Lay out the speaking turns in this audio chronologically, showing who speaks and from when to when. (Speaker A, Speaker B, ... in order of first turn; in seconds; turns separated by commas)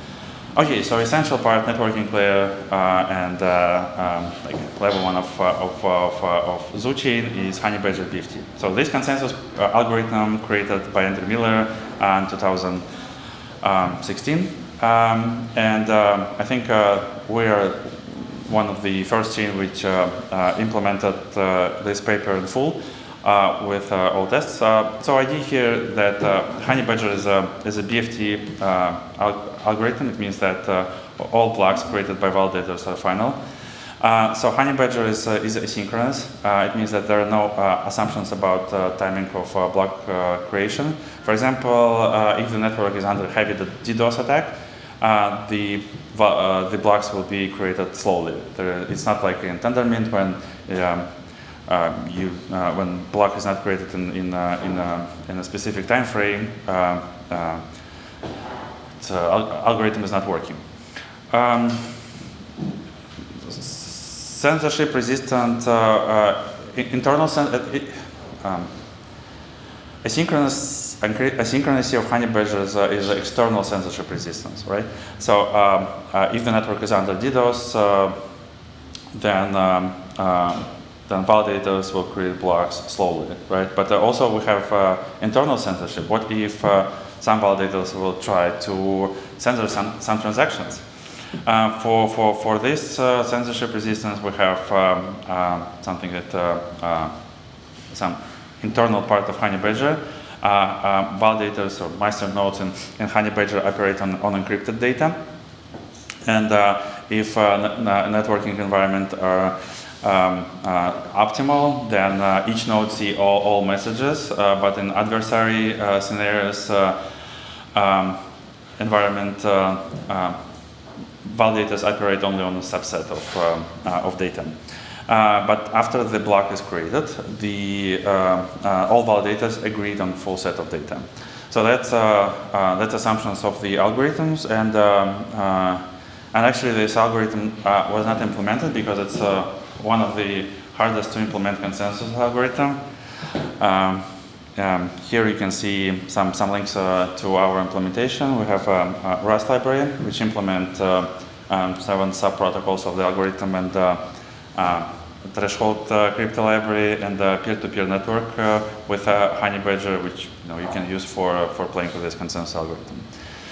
Speaker A: 0.5-12.9, Speaker A: 13.6-51.1, Speaker A: 51.6-57.7, Speaker A: 59.0-60.6, Speaker A: 61.3-62.2, Speaker A: 63.4-68.8, Speaker A: 70.0-78.2, Speaker A: 79.1-90.9, Speaker A: 91.4-97.1, Speaker A: 97.9-105.2, Speaker A: 106.2-118.2, Speaker A: 118.8-120.4, Speaker A: 121.2-163.2